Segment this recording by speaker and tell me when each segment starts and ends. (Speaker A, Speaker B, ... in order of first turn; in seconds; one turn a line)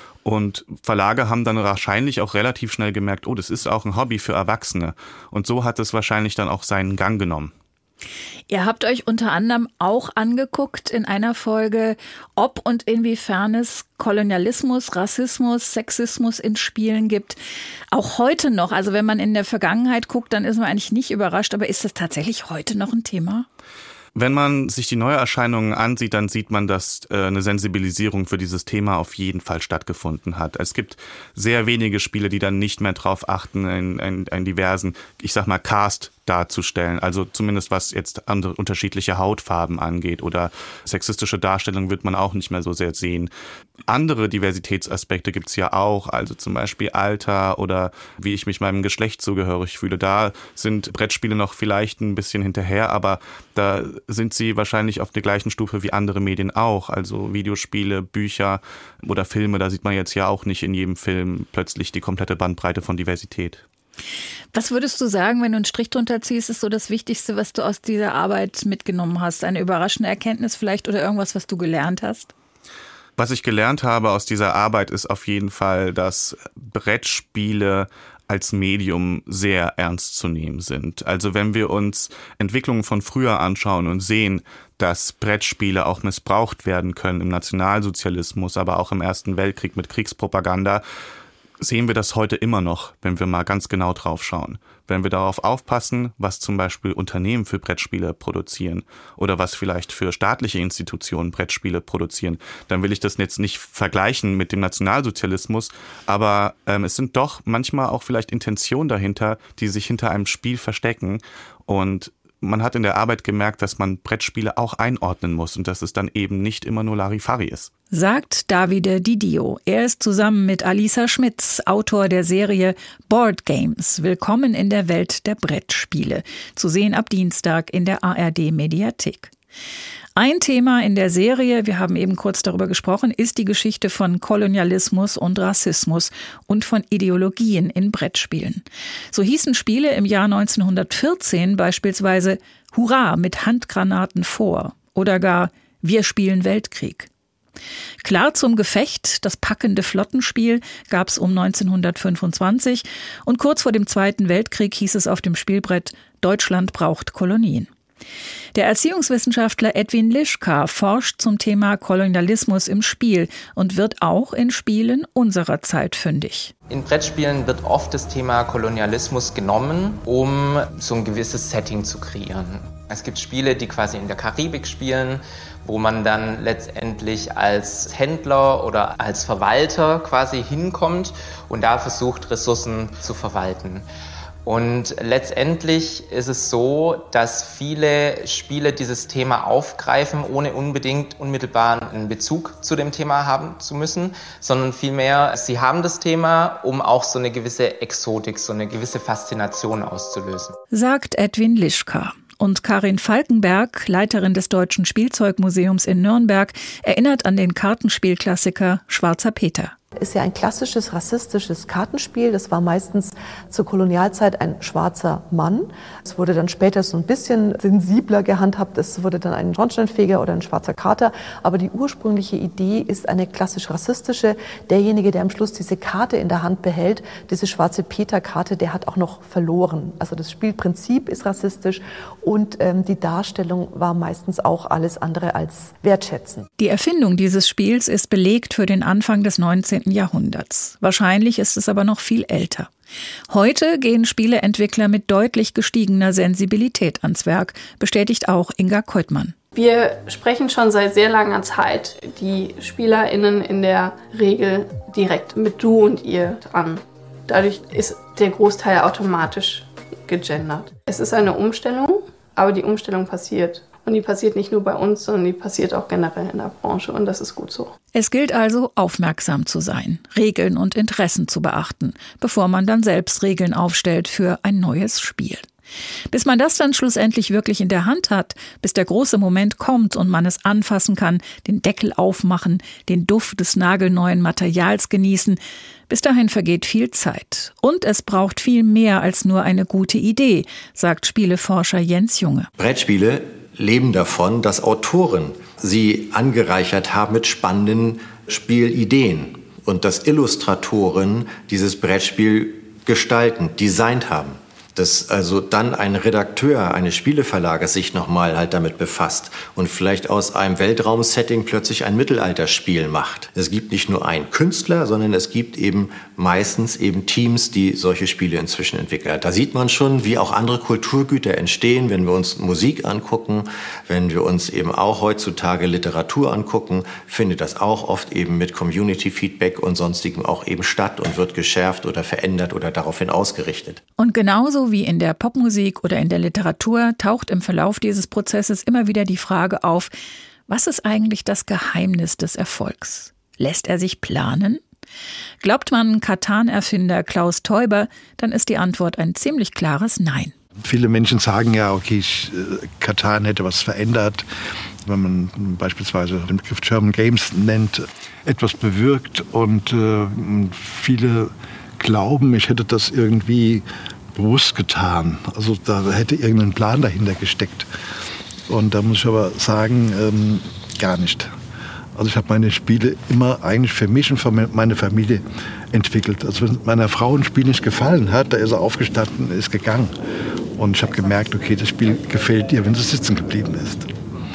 Speaker A: 0.2-7.5
Speaker B: 8.5-17.4
Speaker B: 17.9-23.5
Speaker A: 24.1-43.3
Speaker A: 43.9-63.6
Speaker B: 64.5-72.3
Speaker A: 73.2-90.8
Speaker A: 91.6-117.7
Speaker B: 117.9-129.3
Speaker B: 130.2-147.1
Speaker B: 148.0-157.7
Speaker B: 158.6-166.5
Speaker C: 166.7-183.9
Speaker C: 184.4-200.6
Speaker B: 200.7-209.8
Speaker D: 210.0-236.5
Speaker B: 236.6-242.7
Speaker B: 243.3-249.3
Speaker E: 249.5-267.7
Speaker B: 267.9-275.4
Speaker B: 276.1-292.5
Speaker F: 292.6-333.8
Speaker B: 334.0-339.9
Speaker B: 340.5-344.6
Speaker B: 345.4-350.3
Speaker G: 350.6-354.3
Speaker G: 354.9-367.7
Speaker G: 368.5-371.3
Speaker G: 371.9-379.9
Speaker G: 380.6-383.9